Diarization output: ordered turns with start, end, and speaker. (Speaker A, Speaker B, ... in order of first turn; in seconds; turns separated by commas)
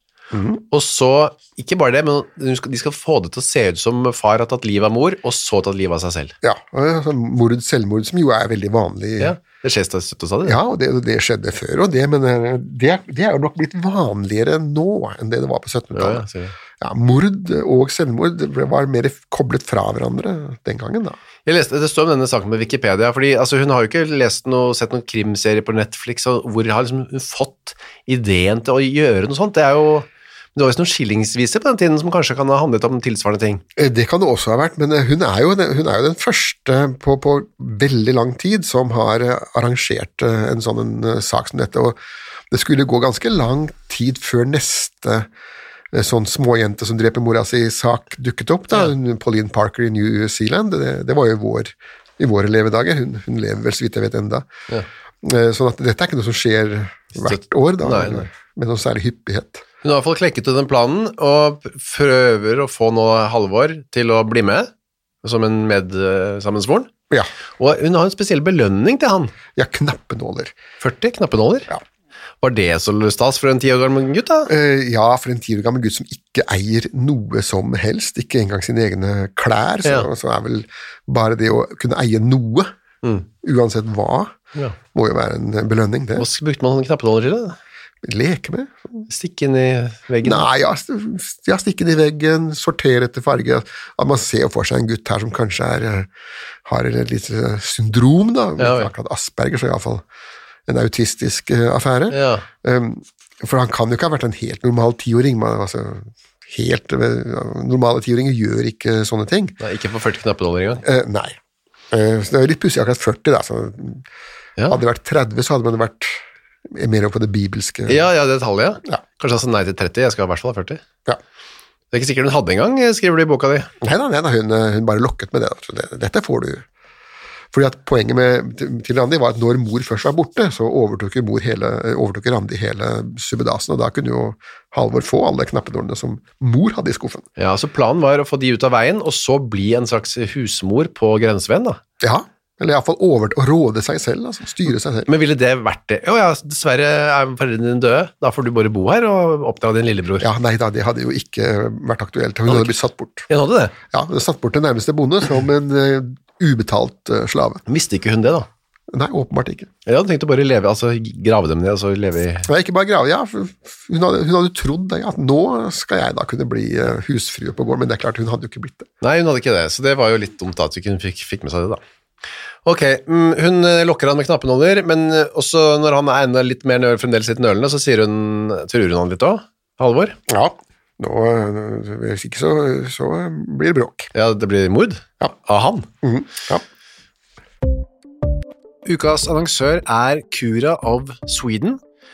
Speaker A: 0.3-0.6, Speaker B: 0.7-6.3, Speaker A: 6.4-9.4, Speaker B: 9.2-10.6, Speaker A: 10.4-16.2, Speaker B: 15.9-16.5, Speaker A: 16.8-21.2, Speaker B: 21.4-33.6, Speaker A: 33.8-42.0, Speaker A: 42.5-45.3, Speaker A: 45.9-54.5, Speaker A: 55.2-59.6, Speaker B: 57.2-58.3, Speaker B: 59.8-64.7, Speaker B: 65.2-66.9, Speaker B: 67.6-69.3, Speaker A: 69.5-70.5, Speaker B: 70.8-71.7, Speaker B: 72.4-74.5, Speaker A: 74.5-82.7, Speaker A: 83.4-84.3, Speaker A: 84.9-86.3, Speaker B: 86.2-87.6, Speaker A: 88.0-89.0, Speaker B: 89.1-90.4, Speaker A: 90.2-96.1, Speaker A: 96.7-100.0, Speaker B: 98.6-98.9, Speaker A: 100.7-109.5, Speaker B: 102.1-102.4, Speaker B: 109.6-110.8, Speaker A: 110.8-111.4, Speaker A: 111.9-114.0, Speaker A: 114.7-118.0, Speaker B: 117.9-120.8, Speaker B: 121.9-123.7, Speaker A: 123.8-126.6, Speaker A: 127.5-137.3, Speaker B: 137.4-141.8, Speaker A: 142.0-145.1, Speaker B: 145.1-150.3, Speaker A: 150.2-153.3, Speaker B: 152.5-152.7, Speaker B: 153.3-153.7, Speaker A: 153.9-157.6, Speaker B: 157.7-158.5, Speaker A: 158.9-159.7, Speaker B: 159.8-162.5, Speaker A: 162.4-168.9, Speaker B: 169.0-171.8, Speaker B: 172.6-180.2, Speaker A: 180.3-184.1, Speaker B: 184.1-185.9, Speaker A: 186.0-186.6, Speaker B: 188.8-191.8